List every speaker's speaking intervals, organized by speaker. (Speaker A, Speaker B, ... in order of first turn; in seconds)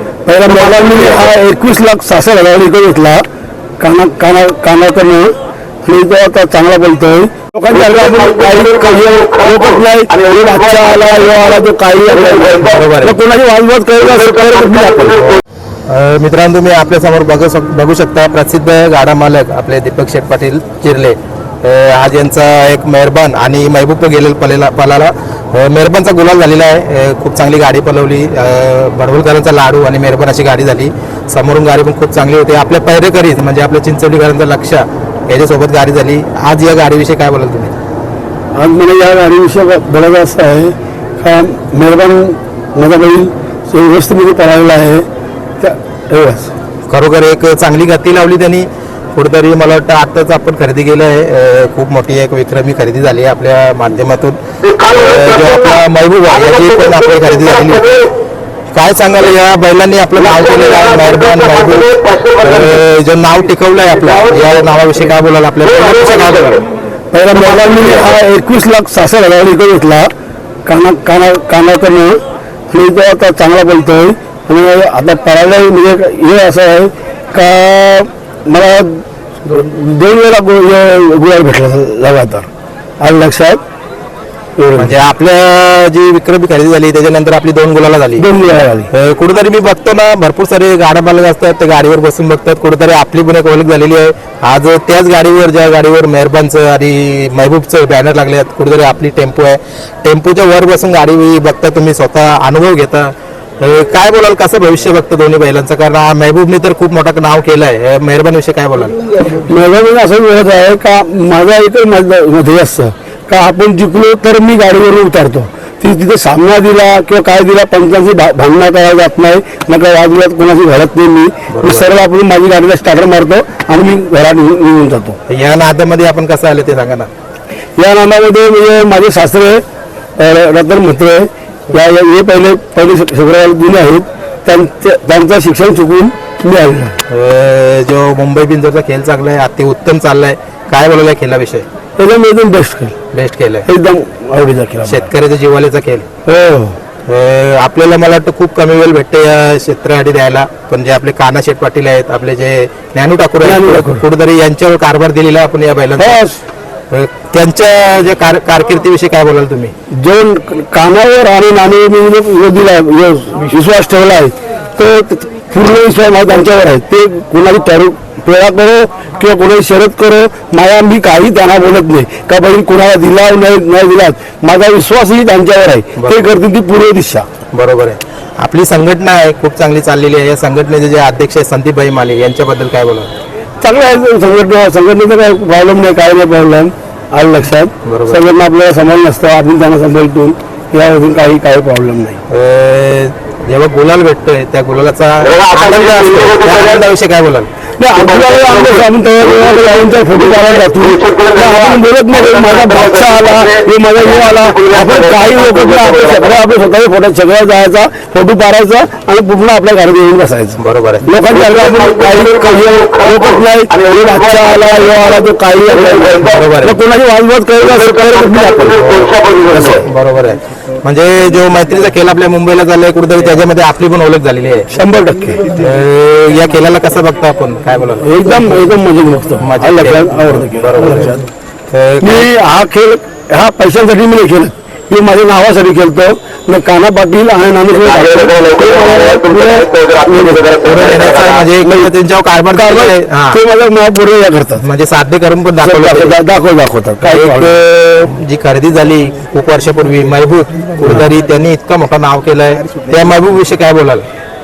Speaker A: 0.3-3.2, 3.8-15.4, 38.5-45.1, 45.6-46.5, 67.1-70.1, 70.7-72.2, 72.7-82.5, 83.0-83.6, 84.6-85.0, 88.2-88.9, 109.3-125.2, 127.8-129.6, 130.2-137.0, 142.0-142.9, 143.7-145.1, 146.2-146.8, 153.4-154.0, 156.0-156.4, 160.0-177.3, 183.6-192.2, 195.5-196.4, 197.8-219.8, 224.7-225.5, 228.0-231.3, 232.0-240.9, 241.6-241.9, 242.5-244.6, 245.6-247.5
Speaker B: 12.6-13.2, 15.9-37.7, 46.9-58.1, 58.7-66.6, 84.8-88.3, 88.9-109.0, 121.5-121.9, 125.3-127.1, 137.1-141.7, 143.1-143.7, 144.9-146.1, 147.1-156.2, 156.9-159.7, 176.0-176.3, 177.5-183.1, 187.8-188.2, 192.3-197.5, 210.6-211.1, 216.2-216.8, 218.9-219.1, 219.7-224.7, 225.5-228.1, 229.4-231.2, 231.7-232.3, 240.6-243.4, 244.6-246.1, 247.0-254.1